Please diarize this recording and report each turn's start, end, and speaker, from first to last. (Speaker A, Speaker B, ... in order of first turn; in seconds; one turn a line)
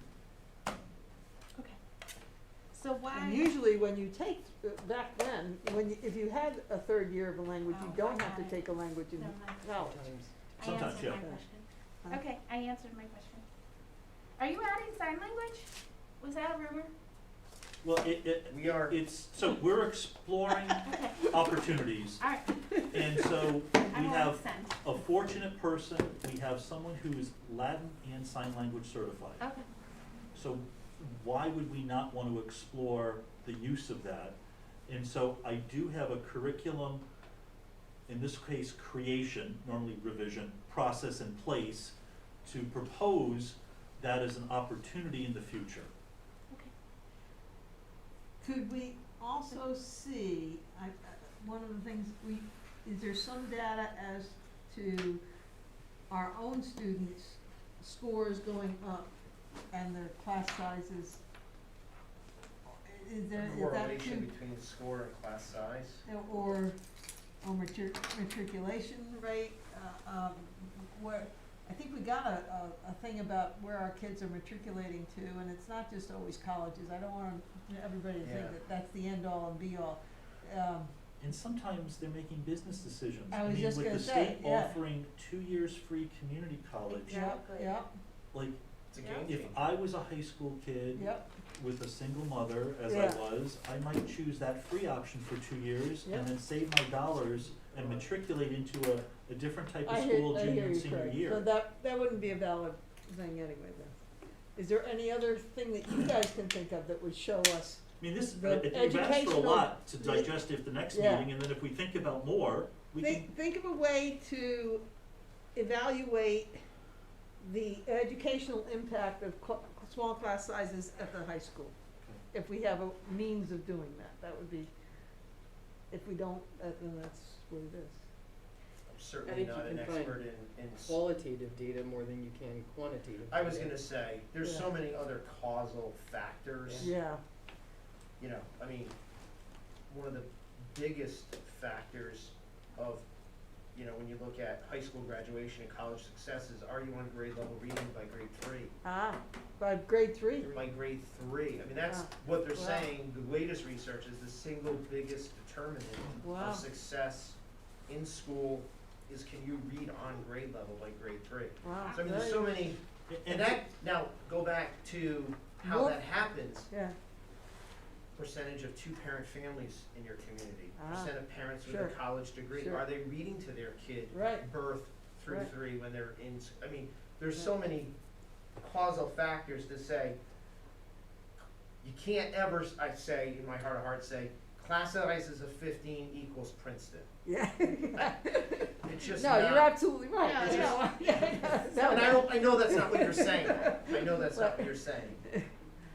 Speaker A: 2.7-3.5
Speaker B: 3.1-10.0
Speaker A: 7.7-9.8
Speaker C: 9.7-10.3
Speaker A: 10.6-13.4
Speaker D: 10.6-11.2
Speaker B: 10.8-11.4
Speaker A: 14.4-16.9
Speaker D: 17.8-22.2
Speaker E: 18.5-19.0
Speaker A: 20.8-21.6
Speaker A: 22.2-22.6
Speaker D: 22.9-29.4
Speaker A: 23.9-24.8
Speaker A: 29.4-29.7
Speaker D: 30.3-34.4
Speaker D: 34.9-37.0
Speaker D: 38.1-41.9
Speaker D: 42.5-45.9
Speaker B: 48.4-55.2
Speaker B: 56.1-59.1
Speaker B: 59.7-61.2
Speaker B: 62.8-64.3
Speaker E: 63.4-66.0
Speaker B: 66.1-66.8
Speaker B: 67.4-80.9
Speaker E: 78.2-78.6
Speaker D: 81.2-87.3
Speaker B: 83.3-84.8
Speaker A: 86.9-87.8
Speaker B: 87.1-87.9
Speaker D: 88.3-88.6
Speaker E: 88.9-89.7
Speaker D: 89.2-101.5
Speaker B: 91.0-91.3
Speaker B: 92.9-93.2
Speaker B: 96.0-96.3
Speaker B: 99.8-104.0
Speaker B: 104.6-107.8
Speaker D: 108.0-113.3
Speaker B: 108.4-110.3
Speaker B: 110.9-111.3
Speaker B: 113.0-114.8
Speaker B: 115.5-116.6
Speaker B: 117.4-121.8
Speaker B: 122.3-124.7
Speaker B: 125.9-128.0
Speaker E: 128.9-131.0
Speaker C: 129.2-133.9
Speaker E: 133.3-136.9
Speaker B: 134.4-134.7
Speaker C: 136.7-136.9
Speaker B: 136.8-137.2
Speaker E: 138.2-139.0
Speaker E: 139.9-143.1
Speaker E: 143.7-148.8
Speaker B: 148.8-150.6
Speaker E: 150.5-166.7
Speaker B: 151.8-152.9
Speaker B: 156.2-156.7
Speaker B: 161.6-162.6
Speaker D: 163.1-163.6
Speaker B: 165.6-166.0
Speaker B: 166.7-167.0
Speaker E: 168.2-177.9
Speaker B: 170.8-172.0
Speaker B: 172.5-172.8
Speaker B: 174.1-174.5
Speaker E: 178.6-180.2
Speaker E: 181.8-187.1
Speaker B: 187.3-194.7
Speaker E: 187.9-188.2
Speaker E: 188.8-189.8
Speaker A: 190.2-191.9
Speaker E: 190.3-191.1
Speaker E: 191.8-195.3